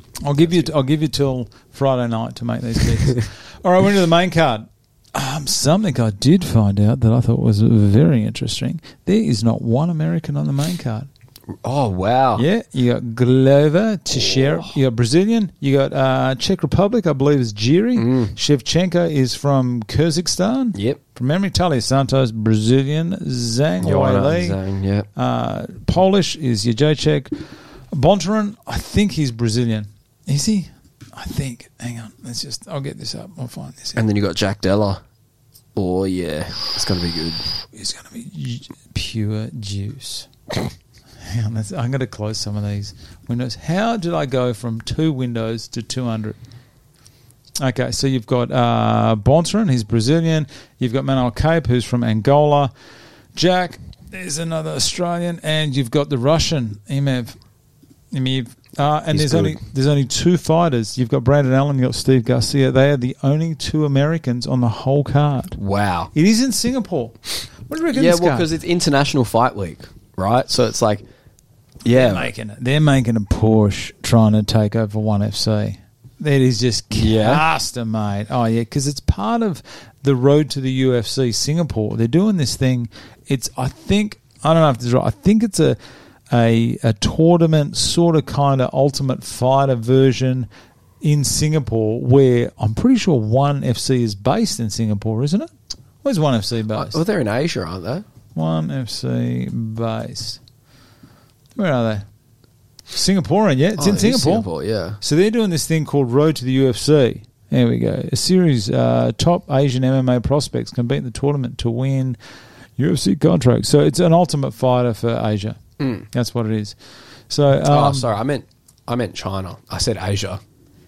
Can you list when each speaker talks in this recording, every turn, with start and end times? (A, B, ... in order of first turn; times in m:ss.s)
0:00.2-0:11.1 A
0:00.4-0:00.7 B
0:11.6-0:12.4 B
0:12.4-0:24.6 A
0:14.2-0:14.6 B
0:18.0-0:18.4 B
0:20.8-0:21.0 B
0:23.8-0:25.1 B
0:25.2-0:27.3 A
0:27.9-0:34.0 A
0:34.0-0:35.0 B
0:35.8-0:37.5 B
0:37.7-0:40.3 A
0:41.2-0:46.4 A
0:47.6-0:52.7 A
0:53.4-0:57.4 A
0:58.1-1:05.6 A
0:59.1-0:59.6 B
1:05.6-1:06.1 B
1:06.1-1:08.5 A
1:07.9-1:11.0 B
1:11.8-1:12.3 B
1:11.9-1:25.8 A
1:16.9-1:17.4 B
1:26.3-1:30.5 A
1:31.0-1:35.5 A
1:36.0-1:37.0 A
1:36.7-1:38.0 B
1:38.4-1:40.4 A
1:41.6-1:42.1 A
1:42.9-1:44.5 A
1:43.8-1:45.0 B
1:45.0-1:52.2 A
1:52.8-1:55.6 A
1:55.8-1:56.1 B
1:56.1-1:56.8 A
1:57.3-1:58.1 A
1:57.7-2:00.4 B